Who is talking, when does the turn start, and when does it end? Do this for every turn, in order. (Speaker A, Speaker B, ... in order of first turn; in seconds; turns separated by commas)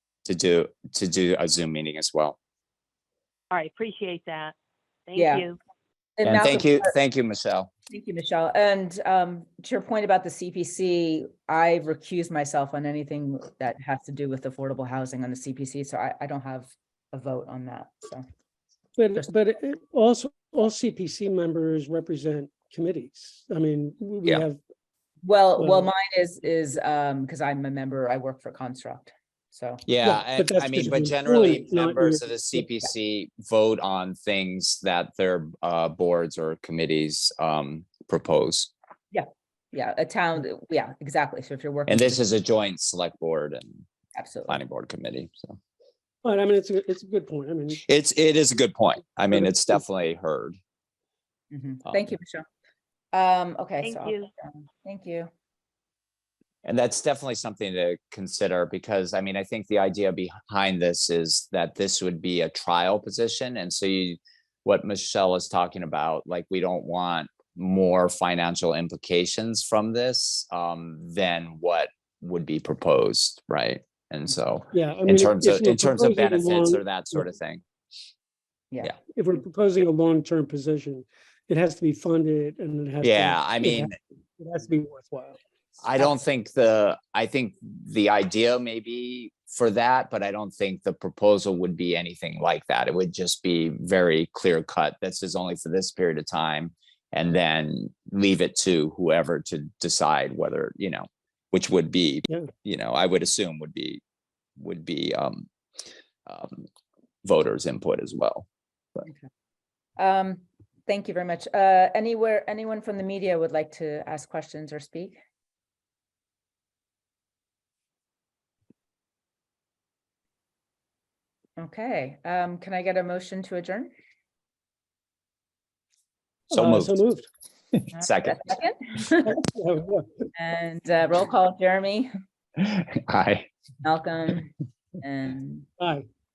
Speaker A: 0.2-2.4, Speaker B: 3.5-4.5, Speaker B: 5.1-5.6, Speaker C: 5.2-5.5, Speaker C: 6.2-6.9, Speaker A: 6.2-7.7, Speaker C: 7.9-18.2, Speaker D: 18.9-24.6, Speaker C: 25.2-29.8, Speaker D: 25.6-25.9, Speaker A: 29.9-38.7, Speaker D: 30.0-32.7, Speaker C: 39.1-42.2, Speaker A: 41.9-43.8, Speaker C: 44.1-44.6, Speaker A: 44.5-45.6, Speaker D: 46.2-47.8, Speaker A: 47.8-50.6, Speaker D: 49.3-49.7, Speaker C: 51.5-52.5, Speaker C: 53.1-55.3, Speaker B: 53.8-54.3, Speaker A: 56.6-77.6, Speaker D: 74.7-77.2, Speaker D: 79.1-85.4, Speaker A: 83.0-83.9, Speaker A: 85.8-104.0, Speaker A: 104.6-105.5, Speaker A: 106.2-106.7, Speaker A: 107.2-108.5, Speaker C: 110.0-115.2, Speaker C: 121.6-123.9, Speaker A: 126.5-127.0, Speaker D: 126.5-127.2, Speaker C: 127.9-129.3, Speaker A: 128.0-128.4, Speaker D: 129.2-130.2, Speaker C: 130.3-132.1, Speaker A: 132.6-133.5, Speaker C: 133.8-135.7, Speaker D: 135.8-136.1